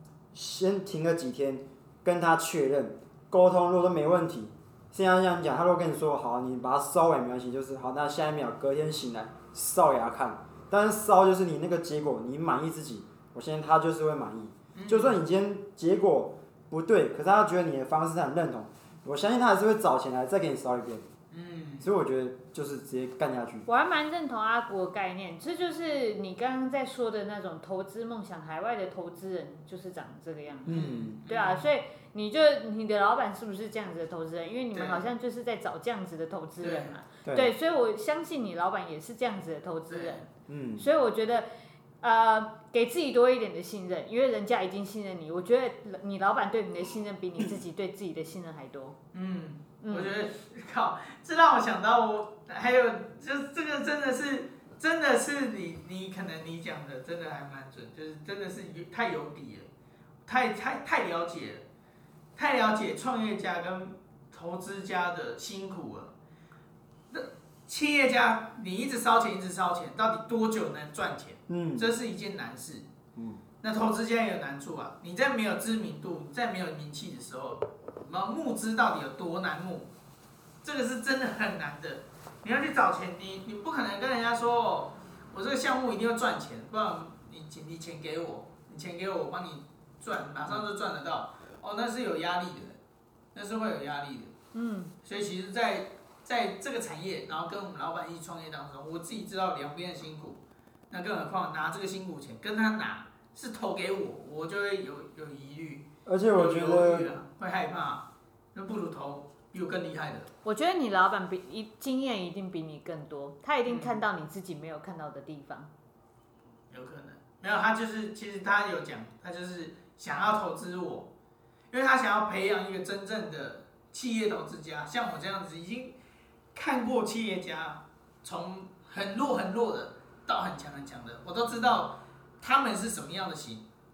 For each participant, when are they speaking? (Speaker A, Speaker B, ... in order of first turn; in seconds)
Speaker A: 0.3-21.1, 21.8-23.7, 30.6-31.2, 37.2-37.5, 40.5-40.9, 71.5-71.9, 73.2-73.4, 106.0-107.1
Speaker B: 14.7-15.2, 21.3-21.9, 30.7-31.7, 34.7-35.1, 36.6-36.9, 39.9-40.2, 49.1-59.7, 60.3-61.6, 62.4-66.1, 67.1-72.8, 73.6-79.9, 80.6-92.8, 93.3-94.3, 95.0-110.3, 113.7-114.0, 116.7-121.1, 121.7-126.0, 126.5-133.6
Speaker C: 23.7-40.2, 40.8-41.5, 42.0-49.0, 49.8-50.1, 94.5-94.9, 110.4-115.7